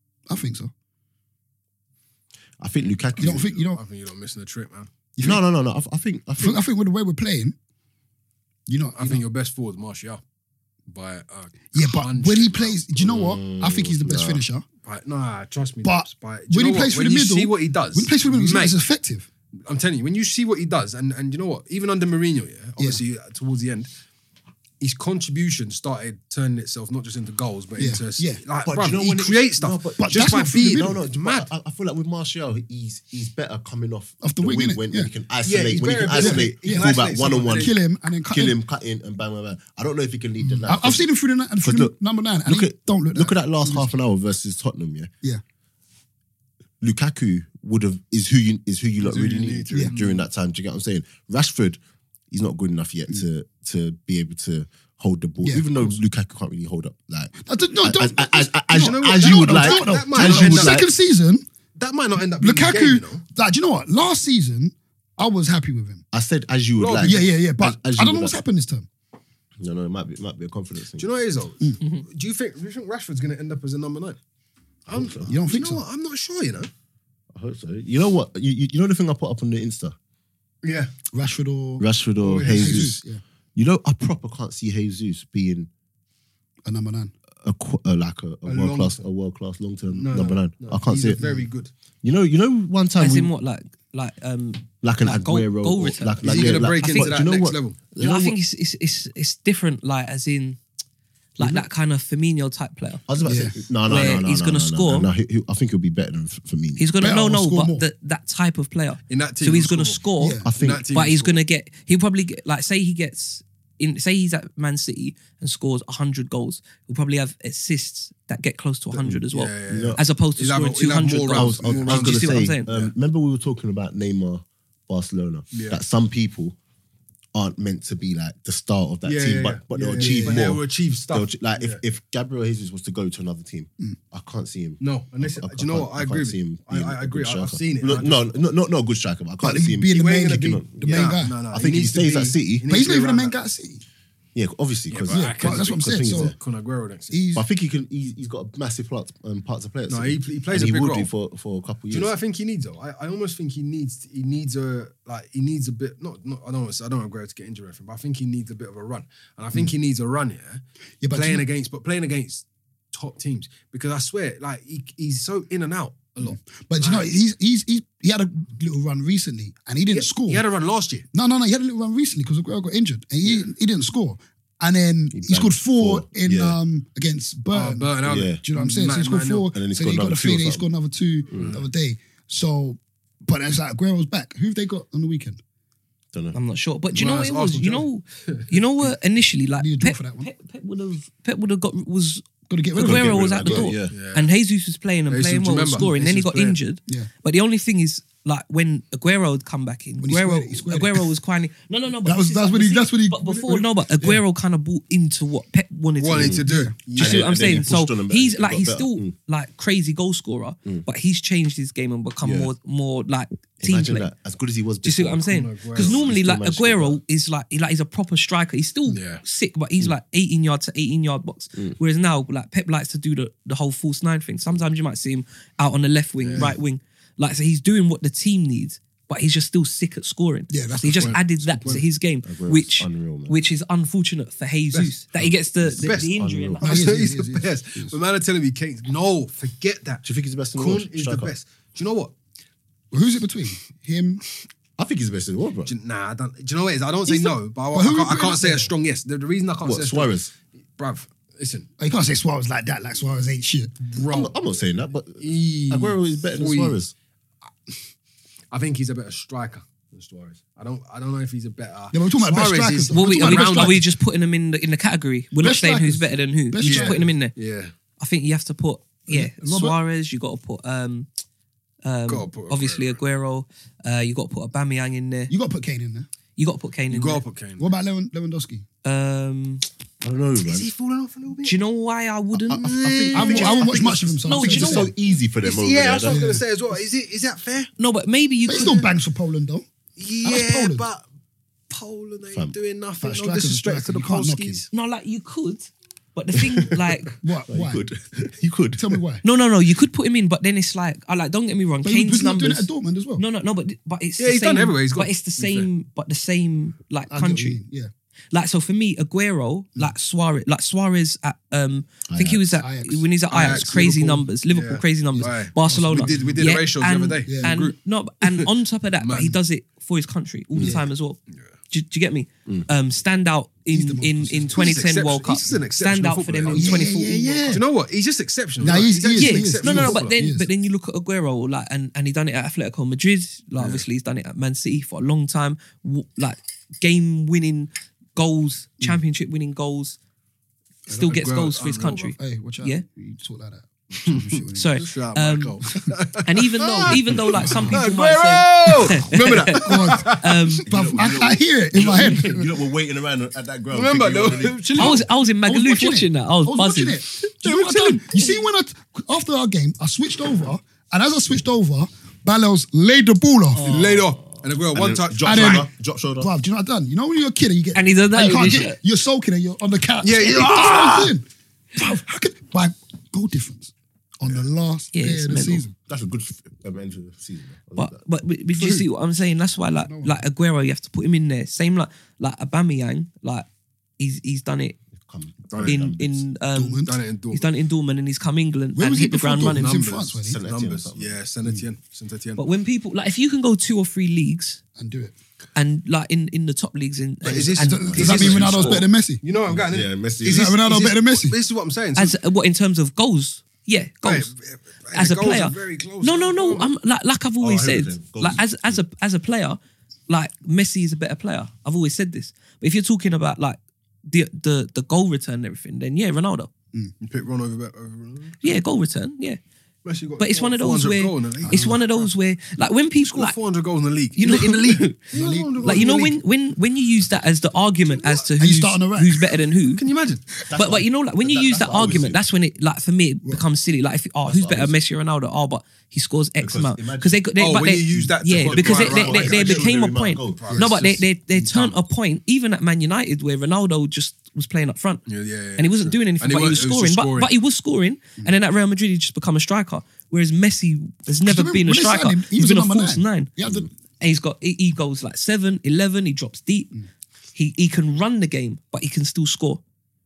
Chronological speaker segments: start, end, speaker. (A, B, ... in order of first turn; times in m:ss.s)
0:00.3-0:00.7 A
0:02.6-0:03.6 B
0:03.2-0:03.8 A
0:03.2-0:04.9 C
0:05.2-0:05.4 A
0:05.2-0:06.6 B
0:06.4-0:07.6 A
0:08.7-0:09.2 A
0:09.0-0:10.2 C
0:10.9-0:12.8 C
0:11.7-0:14.6 A
0:13.0-0:14.4 B
0:14.8-0:18.8 C
0:15.8-0:19.3 A
0:19.6-0:23.9 C
0:24.8-0:31.5 C
0:27.8-0:28.4 A
0:28.6-0:37.7 B
0:30.0-0:31.0 A
0:34.2-0:35.1 A
0:35.4-0:37.7 C
0:36.1-0:37.0 A
0:37.5-0:38.6 A
0:38.3-0:41.0 B
0:40.5-0:43.9 A
0:41.6-0:45.1 B
0:46.8-0:51.8 B
0:49.0-0:50.3 C
0:52.3-1:00.9 B
0:55.4-0:56.0 A
0:57.4-1:01.4 A
0:58.7-1:00.8 C
1:01.8-1:03.2 C
1:02.4-1:06.0 A
1:06.1-1:08.4 B
1:06.8-1:07.3 C
1:07.0-1:08.9 A
1:09.6-1:11.1 B
1:11.0-1:14.2 C
1:14.9-1:16.7 C
1:14.9-1:15.3 B
1:15.2-1:15.8 A
1:17.3-1:19.9 B
1:20.6-1:20.9 C
1:21.1-1:21.9 A
1:21.8-1:23.0 B
1:22.2-1:22.9 C
1:22.5-1:23.2 A
1:23.6-1:25.7 B
1:26.6-1:27.1 A
1:27.4-1:31.2 B
1:28.4-1:29.0 C
1:30.0-1:31.7 C
1:30.9-1:31.5 A
1:32.0-1:33.3 B
1:33.0-1:37.2 D
1:34.8-1:38.4 B
1:36.2-1:37.8 C
1:37.9-1:40.6 D
1:41.4-1:43.0 D
1:43.1-1:46.9 B
1:43.2-1:43.6 A
1:43.8-1:45.1 D
1:46.8-2:02.7 D
1:47.0-1:47.8 A
1:49.1-1:51.4 C
1:50.2-1:50.5 A
1:50.4-1:50.9 B
1:59.0-2:00.0 B
1:59.3-2:02.9 C
2:01.3-2:06.6 B
2:05.5-2:05.8 C
2:07.3-2:22.7 B
2:09.0-2:11.8 C
2:10.0-2:10.3 A
2:14.8-2:18.3 C
2:19.4-2:21.6 A
2:19.9-2:23.4 C
2:22.7-2:23.8 A
2:24.3-2:26.4 B
2:24.9-2:27.2 C
2:25.1-2:26.4 A
2:27.1-2:27.4 A
2:27.3-2:32.1 B
2:29.9-2:31.1 C
2:31.9-2:47.1 C
2:41.0-2:41.4 A
2:46.2-2:50.4 A
2:49.9-2:51.1 C
2:51.1-3:05.4 A
2:55.1-2:56.6 B
2:57.5-2:59.5 C
2:58.0-2:58.4 B
2:59.5-3:00.7 B
3:01.3-3:01.6 B
3:01.3-3:01.6 C
3:06.3-3:34.1 D
3:06.9-3:08.5 C
3:09.6-3:10.3 A
3:12.5-3:13.8 A
3:12.8-3:14.0 B
3:13.9-3:14.3 C
3:15.1-3:16.6 C
3:15.7-3:16.0 A
3:20.0-3:21.1 A
3:22.0-3:24.2 A
3:26.0-3:27.6 C
3:26.1-3:29.1 B
3:26.4-3:26.8 A
3:32.2-3:32.5 B
3:33.6-3:37.0 B
3:34.8-3:56.9 D
3:35.2-3:36.0 C
3:38.9-3:39.2 C
3:46.2-3:46.5 C
3:50.5-3:51.8 A
3:50.9-3:51.8 C
3:52.2-3:53.3 B
3:55.2-3:56.6 B
3:55.7-4:00.0 C
3:56.6-3:58.0 A
4:00.0-4:01.3 B
4:00.6-4:02.1 C
4:02.9-4:04.2 A
4:04.8-4:05.7 B
4:05.7-4:11.7 C
4:07.1-4:08.7 A
4:09.6-4:10.3 B
4:11.8-4:13.8 A
4:13.8-4:14.3 C
4:14.0-4:16.9 B
4:15.1-4:16.8 C
4:18.5-4:23.8 C
4:21.9-4:23.8 A
4:22.9-4:27.3 D
4:25.4-4:27.0 A
4:26.6-4:27.7 C
4:28.0-4:31.1 D
4:29.1-4:29.8 A
4:31.8-4:35.3 D
4:32.1-4:33.0 C
4:35.3-4:36.1 A
4:36.4-4:37.2 D
4:36.9-4:37.7 C
4:37.6-4:38.6 A
4:38.8-4:39.6 D
4:40.0-4:40.7 B
4:40.4-4:41.6 C
4:41.4-4:43.7 D
4:42.3-4:46.2 B
4:42.5-4:44.9 A
4:44.2-4:44.9 D
4:45.4-4:47.7 C
4:46.0-4:46.4 A
4:47.8-4:48.8 D
4:48.4-4:49.6 A
4:48.5-4:48.9 C
4:50.0-4:51.0 C
4:50.2-4:50.8 A
4:51.7-4:54.7 C
4:53.0-4:54.6 A
4:54.7-4:57.2 D
4:56.3-4:59.0 B
4:57.2-4:57.8 A
4:58.8-4:59.2 A
4:59.2-5:07.6 D
5:01.8-5:03.2 A
5:04.2-5:05.7 C
5:07.1-5:07.9 A
5:08.3-5:21.2 D
5:12.1-5:12.4 B
5:12.5-5:13.1 A
5:13.3-5:18.5 C
5:15.1-5:16.5 A
5:17.2-5:17.5 A
5:19.0-5:19.4 C
5:20.6-5:20.9 A
5:21.7-5:27.6 D
5:23.7-5:24.9 A
5:24.5-5:26.9 C
5:26.5-5:27.6 A
5:27.5-5:30.1 C
5:28.6-5:30.5 A
5:29.2-5:40.0 D
5:33.6-5:33.8 C
5:40.8-5:41.2 A
5:41.0-5:42.8 D
5:41.0-5:42.1 C
5:42.2-5:44.7 A
5:44.0-5:50.5 C
5:44.5-5:45.6 D
5:46.2-5:50.7 D
5:47.3-5:47.8 A
5:49.0-5:49.6 B
5:49.6-5:52.5 A
5:50.7-5:54.7 B
5:53.7-5:55.0 C
5:54.7-5:58.0 D
5:54.7-6:04.0 A
5:57.5-5:57.9 B
6:03.5-6:04.4 D
6:03.6-6:05.7 C
6:04.7-6:06.3 B
6:05.2-6:15.7 A
6:07.7-6:08.8 D
6:10.0-6:11.1 C
6:14.9-6:15.6 D
6:15.9-6:18.0 B
6:17.8-6:23.5 D
6:18.6-6:18.9 A
6:19.7-6:20.2 A
6:24.0-6:24.8 D
6:24.9-6:26.3 B
6:25.5-6:25.8 C
6:25.6-6:29.7 D
6:26.5-6:26.9 A
6:26.8-6:27.4 C
6:28.8-6:30.4 A
6:29.4-6:32.4 C
6:30.3-6:31.6 B
6:32.4-6:34.6 D
6:34.8-6:35.1 A
6:35.5-6:38.8 D
6:37.2-6:39.2 A
6:37.2-6:42.2 C
6:37.9-6:38.7 B
6:39.5-6:40.6 B
6:40.2-6:41.4 A
6:42.0-6:44.3 D
6:44.0-6:46.7 C
6:44.9-6:56.5 D
6:47.4-6:48.8 B
6:57.0-6:58.5 C
6:58.4-6:59.4 D
6:59.8-7:02.0 C
7:00.2-7:03.4 D
7:01.4-7:01.8 A
7:03.0-7:06.2 C
7:04.2-7:05.0 D
7:05.1-7:05.9 A
7:05.6-7:09.8 D
7:07.9-7:08.2 C
7:08.4-7:09.3 A
7:09.8-7:10.2 C
7:10.5-7:12.2 B
7:10.5-7:25.0 D
7:14.2-7:14.8 B
7:16.4-7:17.2 B
7:17.4-7:19.7 C
7:18.3-7:20.9 B
7:20.4-7:21.8 C
7:25.0-7:27.3 C
7:25.6-7:33.3 D
7:31.2-7:33.7 A
7:33.4-7:33.7 B
7:34.0-7:36.7 D
7:37.3-7:39.6 D